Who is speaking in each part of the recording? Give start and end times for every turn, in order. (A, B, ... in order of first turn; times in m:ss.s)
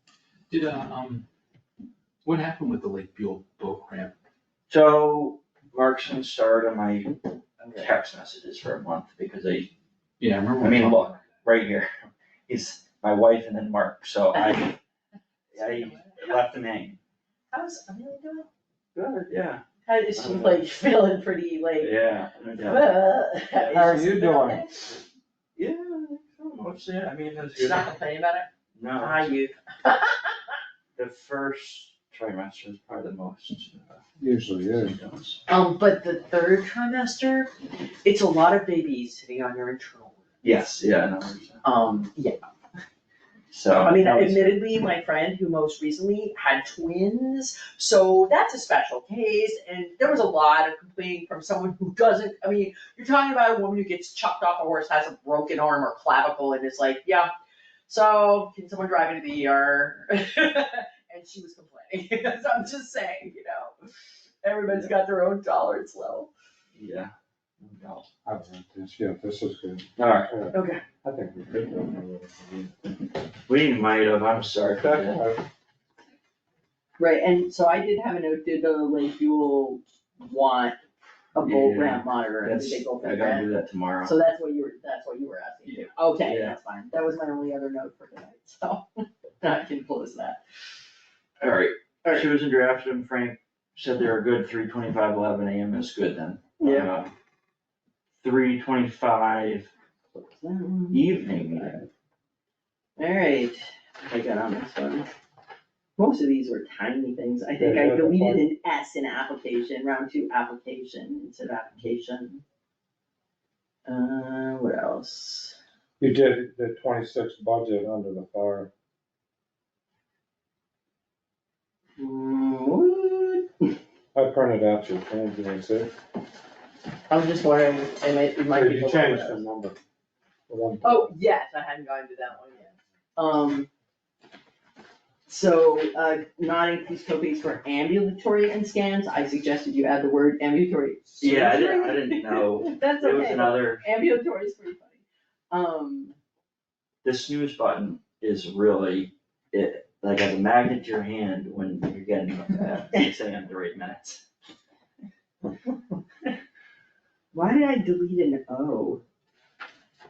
0:00.5-0:01.2 A
0:02.2-0:04.1 A
0:04.7-0:09.7 B
0:07.6-0:07.9 C
0:10.2-0:11.2 A
0:10.6-0:14.7 B
0:14.3-0:14.8 C
0:15.5-0:16.5 C
0:15.6-0:17.0 B
0:17.5-0:18.5 C
0:19.0-0:20.6 B
0:19.8-0:22.0 C
0:21.8-0:22.9 B
0:22.6-0:24.9 C
0:23.5-0:24.0 B
0:23.7-0:24.7 D
0:25.6-0:27.9 B
0:27.5-0:30.6 C
0:28.8-0:29.3 B
0:31.0-0:34.1 B
0:34.2-0:35.0 D
0:34.7-0:35.4 B
0:35.5-0:37.5 C
0:38.0-0:40.2 C
0:40.4-0:41.6 B
0:41.6-0:42.5 C
0:43.5-0:44.6 B
0:43.7-0:57.3 C
0:57.9-1:03.7 C
1:04.4-1:06.3 C
1:06.8-1:08.1 B
1:08.2-1:12.7 D
1:10.0-1:10.3 B
1:10.5-1:10.8 C
1:13.5-1:15.2 B
1:14.8-1:15.4 D
1:17.0-1:20.8 C
1:21.4-1:23.5 C
1:21.4-1:24.1 B
1:24.0-1:28.8 C
1:26.2-1:26.6 B
1:29.4-1:30.4 C
1:31.4-1:37.1 B
1:36.6-1:36.9 C
1:38.2-1:39.7 B
1:40.2-1:41.9 C
1:40.9-1:41.8 B
1:43.0-1:45.1 C
1:46.0-1:52.4 C
1:47.6-1:48.5 D
1:53.9-1:55.6 C
1:56.0-1:58.7 D
2:02.0-2:03.7 C
2:04.2-2:05.9 D
2:07.1-2:09.4 C
2:08.5-2:09.8 D
2:10.5-2:11.1 D
2:10.8-2:13.7 C
2:15.3-2:26.2 C
2:21.2-2:23.8 B
2:27.0-2:34.2 B
2:37.3-2:39.0 C